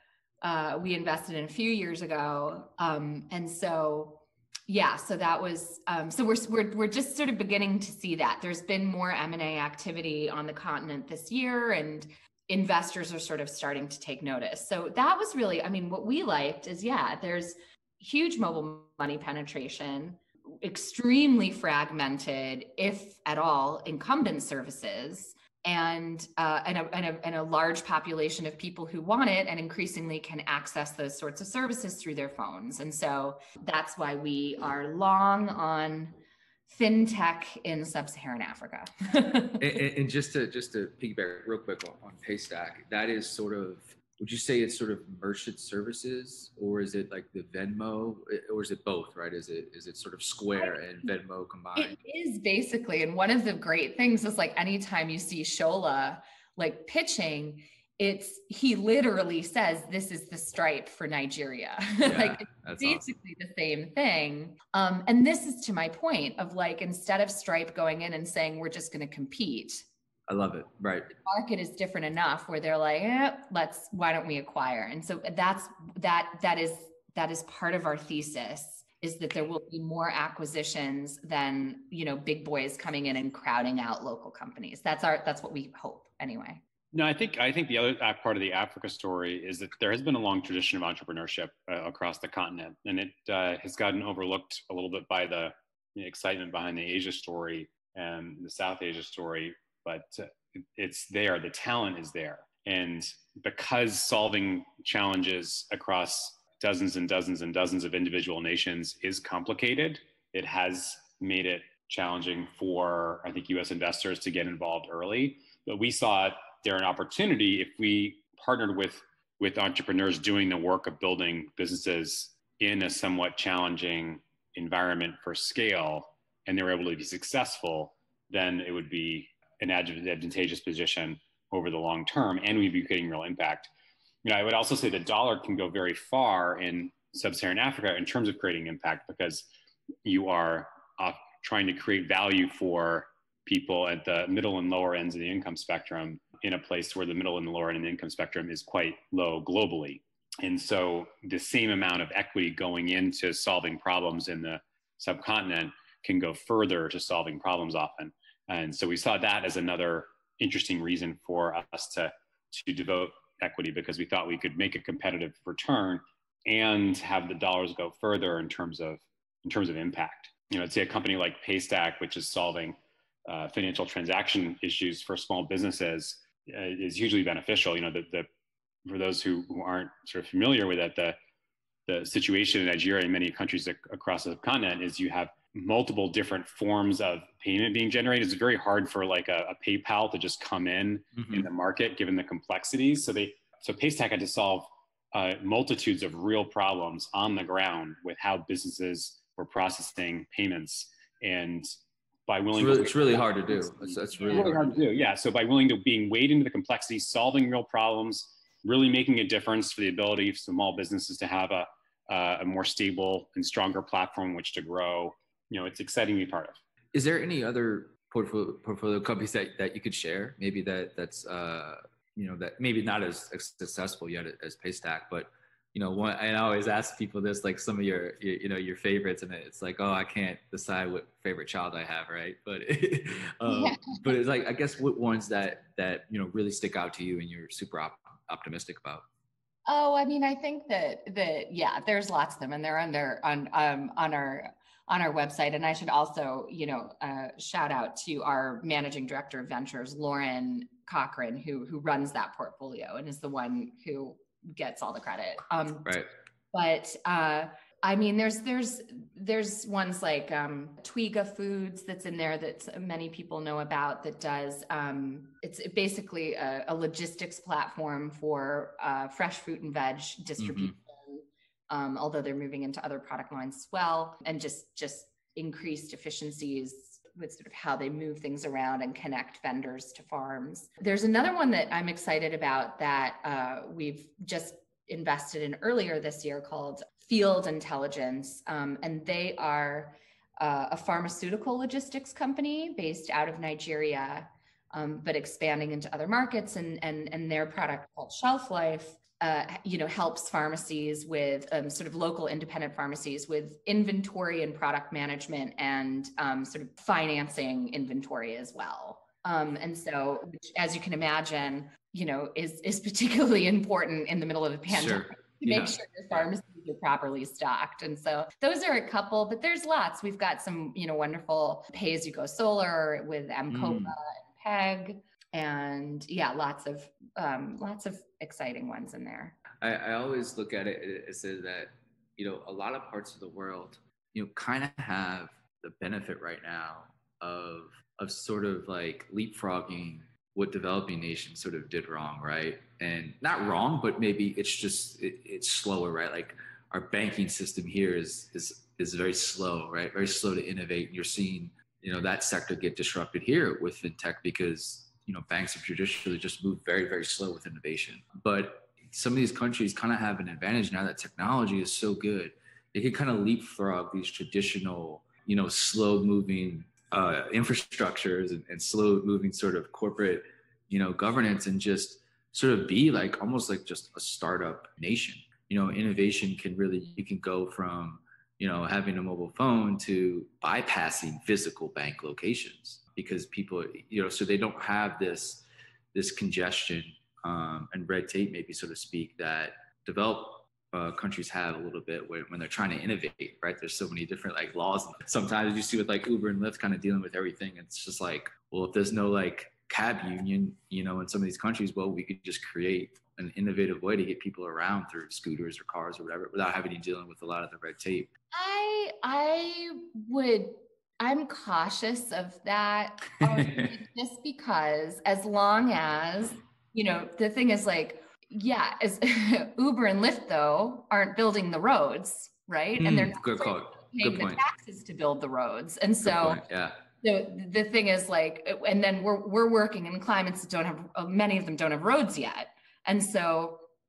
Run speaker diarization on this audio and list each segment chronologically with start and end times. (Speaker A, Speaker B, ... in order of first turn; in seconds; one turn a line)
Speaker A: 0.4-36.1
Speaker A: 36.7-39.6
Speaker B: 39.6-52.0
Speaker A: 51.8-69.8
Speaker B: 62.0-63.0
Speaker B: 70.3-71.1
Speaker A: 71.2-86.6
Speaker C: 86.9-133.7
Speaker C: 134.2-139.5
Speaker C: 140.0-178.3
Speaker C: 178.8-181.2
Speaker C: 181.9-201.7
Speaker B: 191.1-191.5
Speaker C: 202.3-216.6
Speaker B: 202.5-204.8
Speaker A: 204.2-204.5
Speaker B: 216.9-239.0
Speaker A: 233.5-234.1
Speaker A: 239.7-256.0
Speaker B: 255.8-256.1
Speaker A: 256.5-329.4
Speaker B: 270.4-270.7
Speaker B: 314.7-316.2
Speaker B: 323.5-323.9
Speaker B: 329.6-408.1
Speaker A: 408.3-426.4
Speaker B: 413.2-413.7
Speaker B: 422.8-424.4
Speaker B: 426.0-426.8
Speaker A: 426.9-433.6